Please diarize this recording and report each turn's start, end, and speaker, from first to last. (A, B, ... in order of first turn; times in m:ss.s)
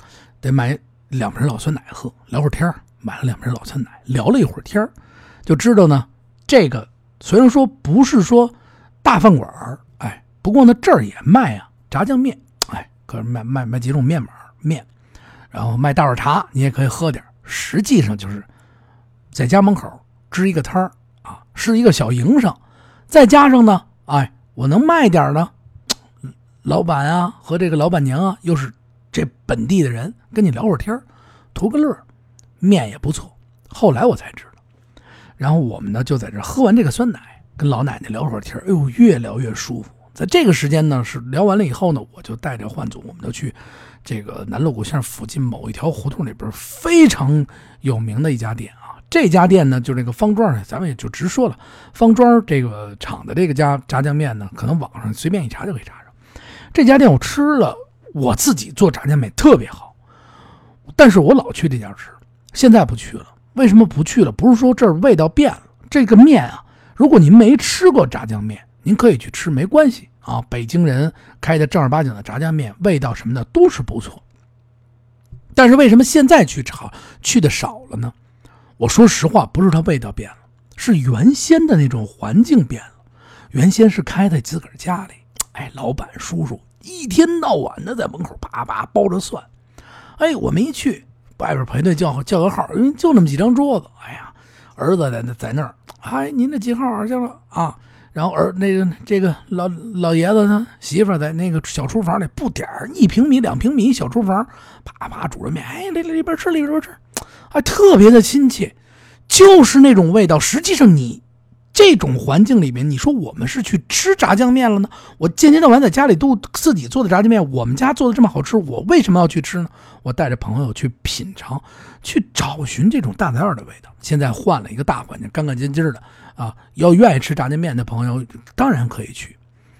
0:00.4-0:04.9 A
0:05.4-0:14.9 A
0:15.5-0:18.4 A
0:19.3-0:22.6 A
0:23.1-0:25.5 A
0:26.6-0:31.0 A
0:31.5-0:32.0 A
0:32.6-0:34.5 A
0:35.4-0:56.1 A
0:56.7-0:59.9 A
1:00.9-1:14.2 A
1:15.5-1:18.1 A
1:18.8-1:22.9 A
1:23.5-1:29.5 A
1:30.2-1:48.8 A
1:49.3-1:51.2 A
1:51.7-2:09.4 A